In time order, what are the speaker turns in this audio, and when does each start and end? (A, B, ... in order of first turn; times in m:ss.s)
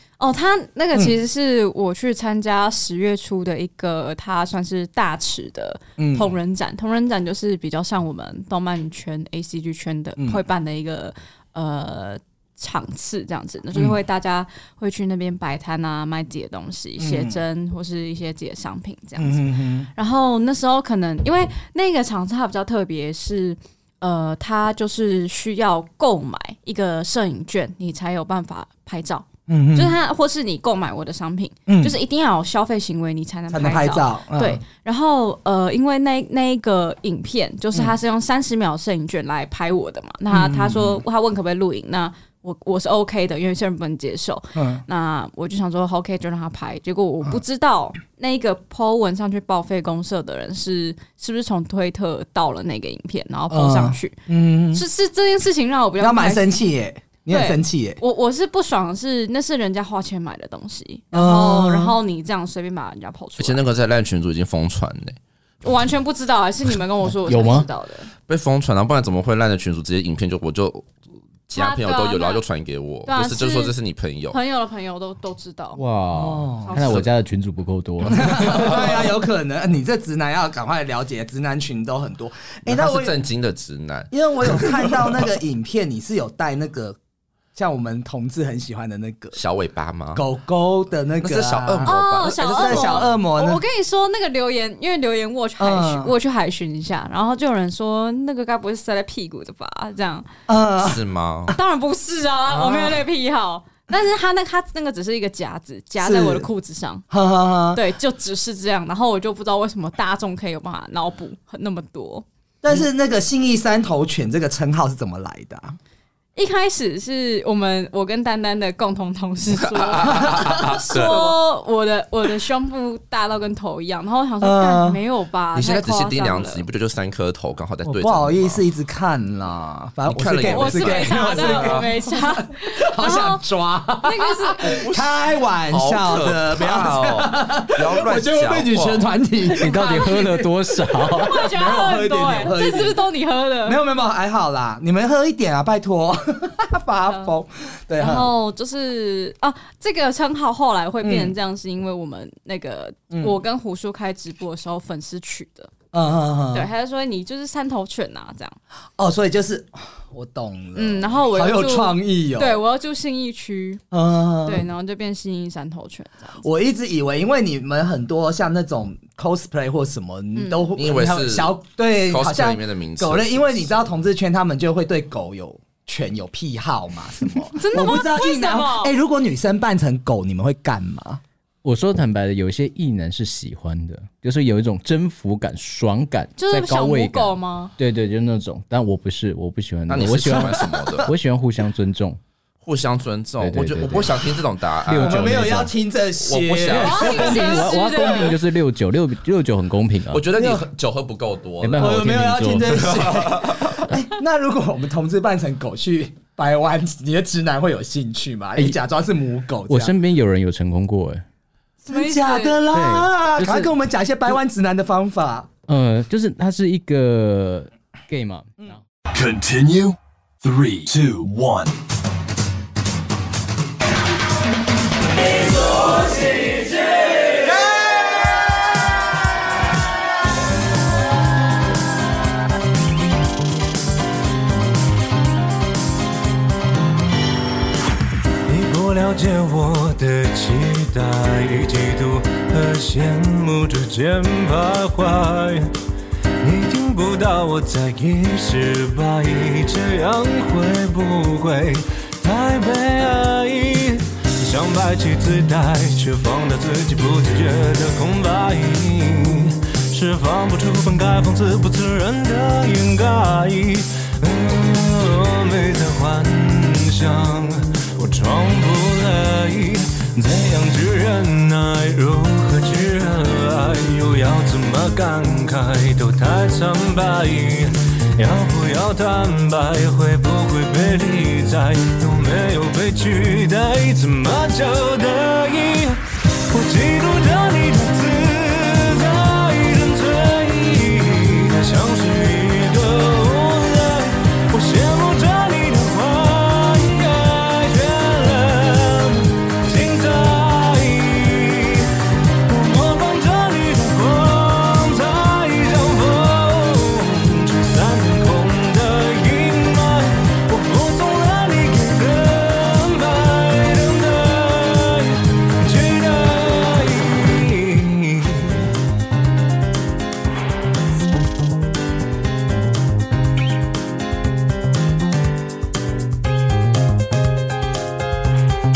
0:00.2-0:54.1 A
0:06.0-0:06.3 B
0:10.2-0:10.4 B
0:13.7-0:14.0 B
0:17.0-0:17.4 B
0:19.2-0:19.9 B
0:29.5-0:30.0 B
0:31.7-0:32.0 B
0:33.5-0:34.6 B
0:40.3-0:41.0 B
0:44.5-0:44.8 B
0:53.5-0:54.8 B
0:54.7-0:56.6 A
0:56.0-0:58.0 B
0:57.3-1:03.6 A
1:01.1-1:02.0 B
1:03.4-1:05.2 C
1:05.6-1:08.1 A
1:07.2-1:07.7 D
1:08.3-1:10.9 C
1:11.5-1:14.4 C
1:11.5-1:12.4 A
1:13.1-1:13.7 A
1:14.3-1:15.8 A
1:15.8-1:18.8 D
1:16.1-1:17.0 B
1:16.7-1:17.0 A
1:18.0-1:23.1 B
1:22.6-1:24.8 C
1:24.1-1:27.0 B
1:27.5-1:29.4 B
1:29.4-1:30.2 C
1:30.1-1:33.6 B
1:31.2-1:33.1 C
1:31.8-1:40.3 A
1:35.6-1:36.1 B
1:40.5-1:41.0 B
1:40.8-1:41.6 C
1:41.5-1:47.0 A
1:42.4-1:43.0 B
1:46.0-1:46.5 B
1:47.1-1:47.8 B
1:47.7-1:52.2 A
1:52.6-1:55.8 B
1:56.3-2:06.6 A
1:59.5-2:01.3 C
2:00.1-2:01.4 B
2:04.4-2:05.0 B
2:05.5-2:08.6 C
2:07.8-2:20.5 B
2:10.1-2:11.9 C
2:10.4-2:13.4 A
2:14.0-2:14.8 A
2:14.6-2:19.1 C
2:19.5-2:21.5 D
2:19.7-2:20.1 A
2:21.2-2:23.8 A
2:21.3-2:23.1 B
2:23.6-2:28.4 B
2:28.0-2:35.7 A
2:31.0-2:31.4 B
2:33.1-2:33.4 B
2:35.9-2:36.7 B
2:36.5-2:38.6 A
2:39.0-2:42.6 B
2:40.8-2:43.8 A
2:43.9-2:44.7 B
2:44.4-2:46.5 A
2:46.4-3:01.2 B
2:50.4-2:50.7 A
2:50.8-2:51.6 C
2:52.1-2:53.8 C
2:57.5-2:58.9 A
3:01.6-3:12.2 D
3:06.4-3:07.7 A
3:09.9-3:11.1 C
3:10.4-3:10.7 B
3:12.6-3:15.5 C
3:13.4-3:14.1 D
3:14.9-3:15.7 D
3:14.9-3:17.7 B
3:16.2-3:17.5 C
3:16.7-3:20.2 D
3:16.8-3:18.4 A
3:20.1-3:21.9 C
3:20.3-3:20.7 B
3:21.6-3:22.8 D
3:21.8-3:29.9 B
3:22.7-3:23.9 C
3:29.7-3:31.2 D
3:31.8-3:32.6 A
3:31.9-3:35.5 B
3:32.7-3:33.8 D
3:35.7-3:38.8 D
3:39.1-3:41.7 E
3:58.4-4:05.7 F
4:06.4-5:01.9 F
5:02.4-5:18.6 F